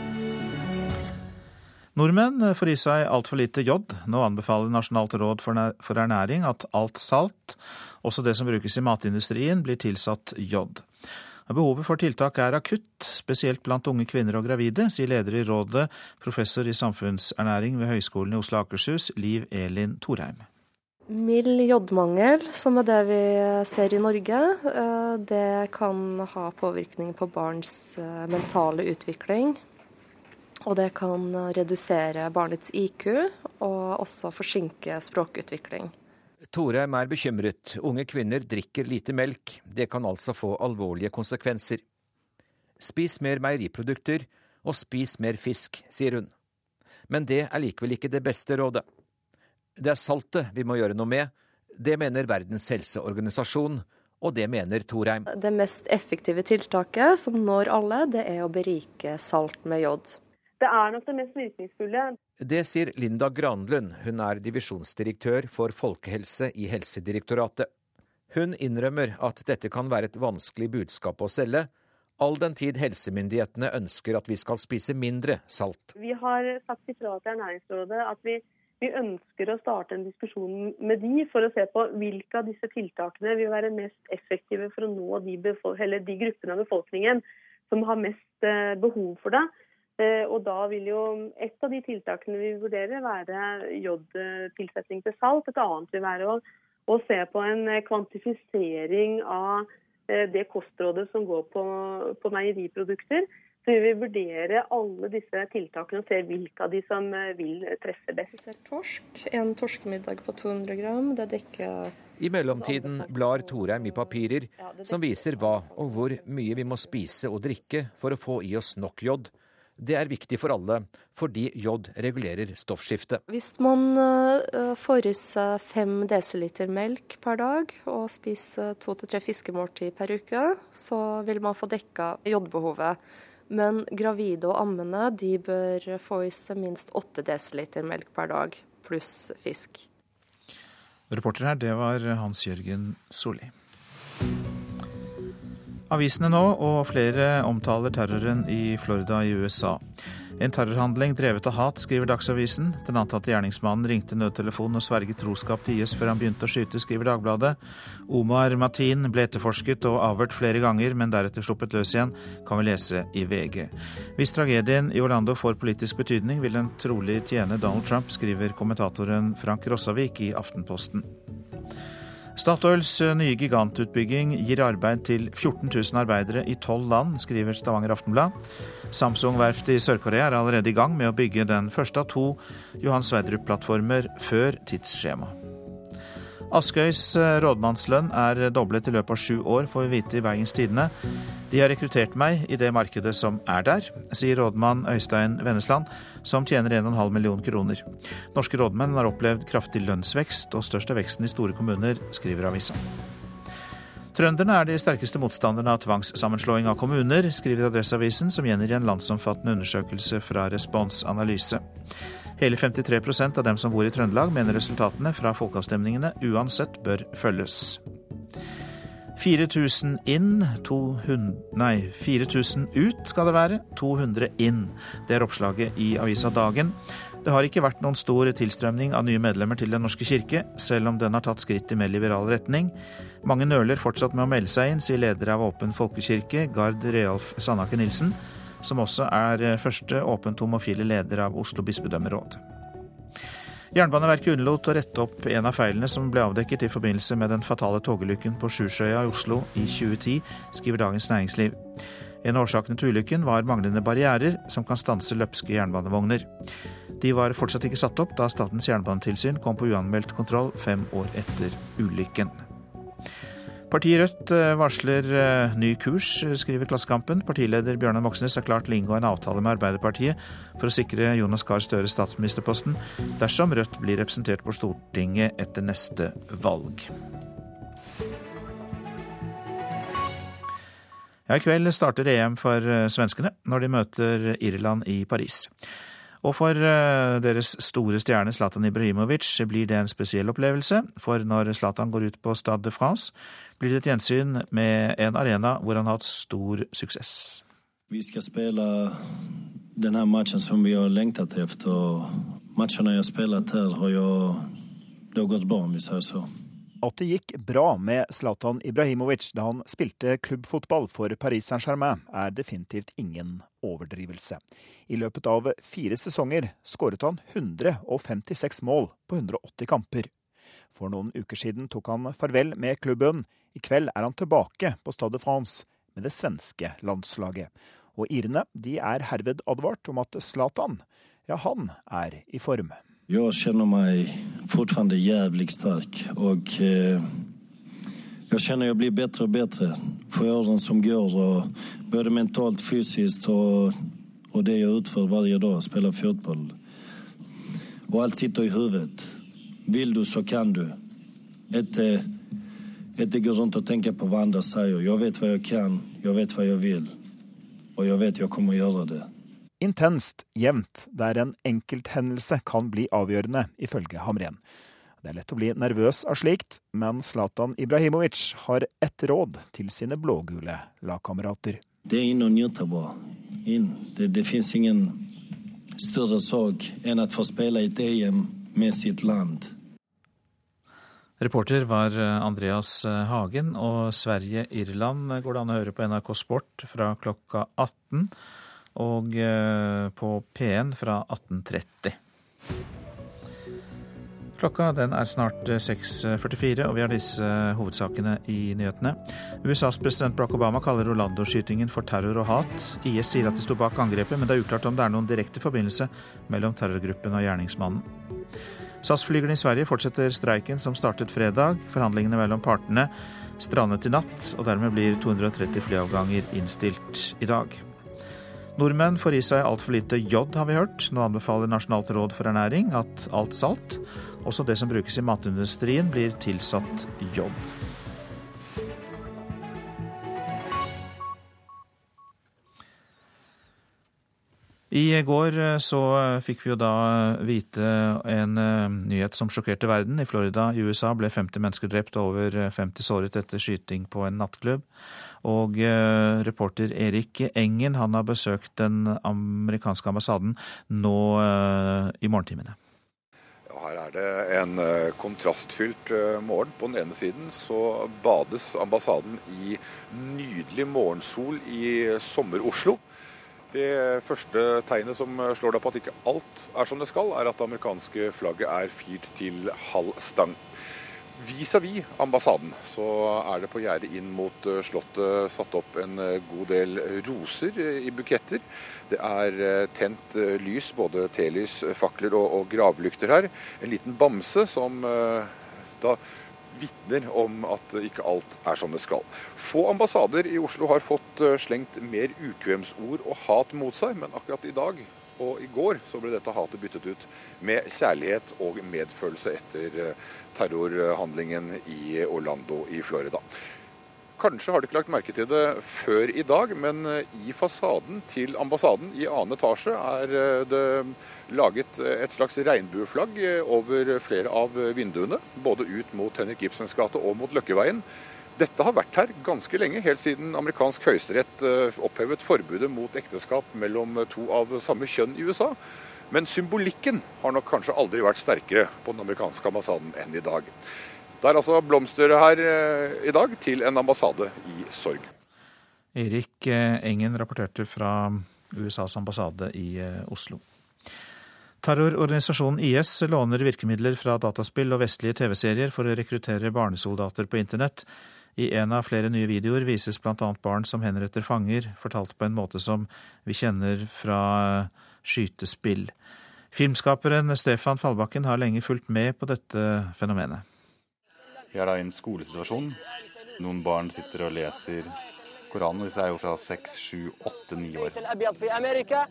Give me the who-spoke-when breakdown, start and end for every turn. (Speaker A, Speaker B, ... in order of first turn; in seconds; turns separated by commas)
Speaker A: 1.9-10.8, Speaker A: 11.5-20.4, Speaker B: 21.1-29.6, Speaker B: 30.6-35.9, Speaker C: 36.5-41.8, Speaker C: 42.8-46.3, Speaker C: 47.1-48.8, Speaker C: 49.8-55.2, Speaker B: 55.3-60.2, Speaker D: 60.6-62.1, Speaker C: 62.4-67.7, Speaker C: 68.3-75.9, Speaker D: 76.0-108.3, Speaker B: 108.3-111.9, Speaker C: 112.2-123.2, Speaker B: 112.5-117.2, Speaker B: 123.3-139.8, Speaker A: 141.1-143.5, Speaker A: 145.9-149.8, Speaker A: 150.4-157.6, Speaker A: 158.1-171.1, Speaker A: 172.3-178.3, Speaker A: 178.9-185.3, Speaker A: 186.5-190.9, Speaker A: 191.5-202.8, Speaker A: 204.1-211.6, Speaker A: 212.4-217.8, Speaker A: 219.2-242.4, Speaker A: 243.7-251.6, Speaker A: 252.2-256.3, Speaker A: 257.0-262.4, Speaker A: 263.7-276.9, Speaker A: 281.3-285.5, Speaker A: 286.2-297.4, Speaker E: 297.9-299.1, Speaker E: 299.7-304.6, Speaker E: 305.1-306.3, Speaker F: 306.8-320.1, Speaker F: 320.7-332.8, Speaker E: 333.1-337.3, Speaker E: 338.3-343.8, Speaker E: 344.3-346.6, Speaker E: 347.9-350.8, Speaker E: 351.5-352.2, Speaker E: 352.9-357.0, Speaker E: 357.8-359.1, Speaker F: 359.6-364.4, Speaker F: 365.0-371.6, Speaker E: 371.9-375.1, Speaker E: 375.8-379.5, Speaker A: 381.2-388.1, Speaker A: 388.7-391.9, Speaker A: 394.4-407.9, Speaker A: 408.8-417.6, Speaker A: 418.6-427.5, Speaker A: 434.7-444.6, Speaker A: 445.2-452.6, Speaker G: 453.5-462.8, Speaker G: 463.5-470.4, Speaker G: 471.1-503.2, Speaker G: 504.2-517.8, Speaker G: 518.4-525.6, Speaker G: 526.1-530.5, Speaker G: 531.2-535.1, Speaker A: 535.9-540.4, Speaker A: 541.6-555.9, Speaker A: 556.5-560.4, Speaker H: 561.5-562.8, Speaker H: 563.3-568.1